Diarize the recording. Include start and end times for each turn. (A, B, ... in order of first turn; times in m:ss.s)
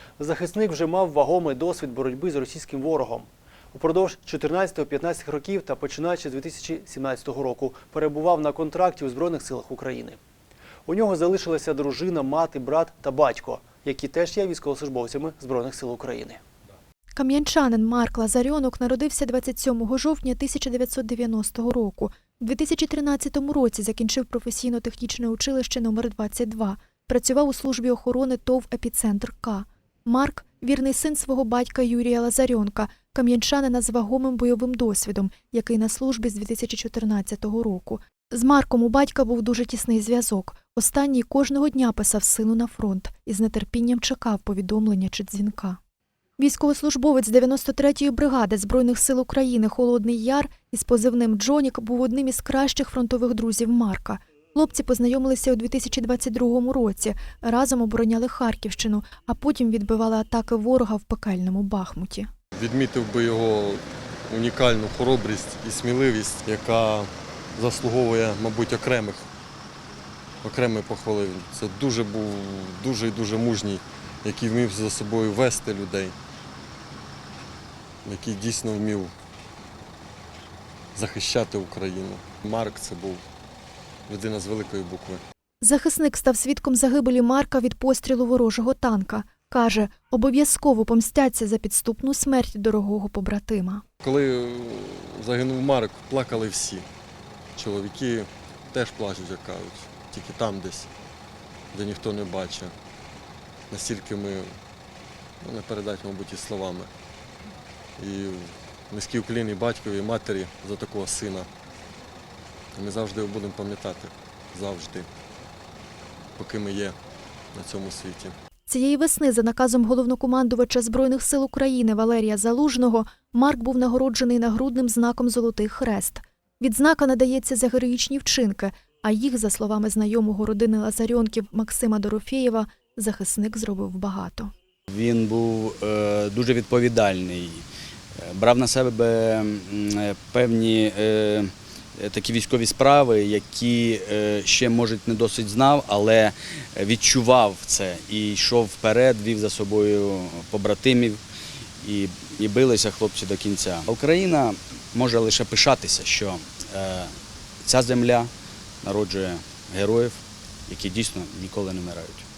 0:00.2-0:10.2 A
0:10.8-0:16.4 A
0:17.1-0:45.8 B
0:46.4-1:02.3 B
1:02.5-1:09.2 C
1:10.4-1:16.2 C
1:18.0-1:19.1 C
1:20.9-1:23.2 C
1:24.1-1:25.2 C
1:25.6-1:33.8 B
1:34.0-1:36.9 C
1:37.6-1:40.9 C
1:41.7-1:42.7 C
1:43.7-1:44.5 C
1:45.4-1:46.9 C
1:48.0-1:51.5 C
1:52.7-1:55.1 C
1:56.4-1:57.0 C
1:57.5-1:58.3 C
1:58.7-2:14.5 B
2:14.9-2:17.6 D
2:18.2-2:31.2 D
2:31.8-2:38.3 D
2:38.8-2:42.2 D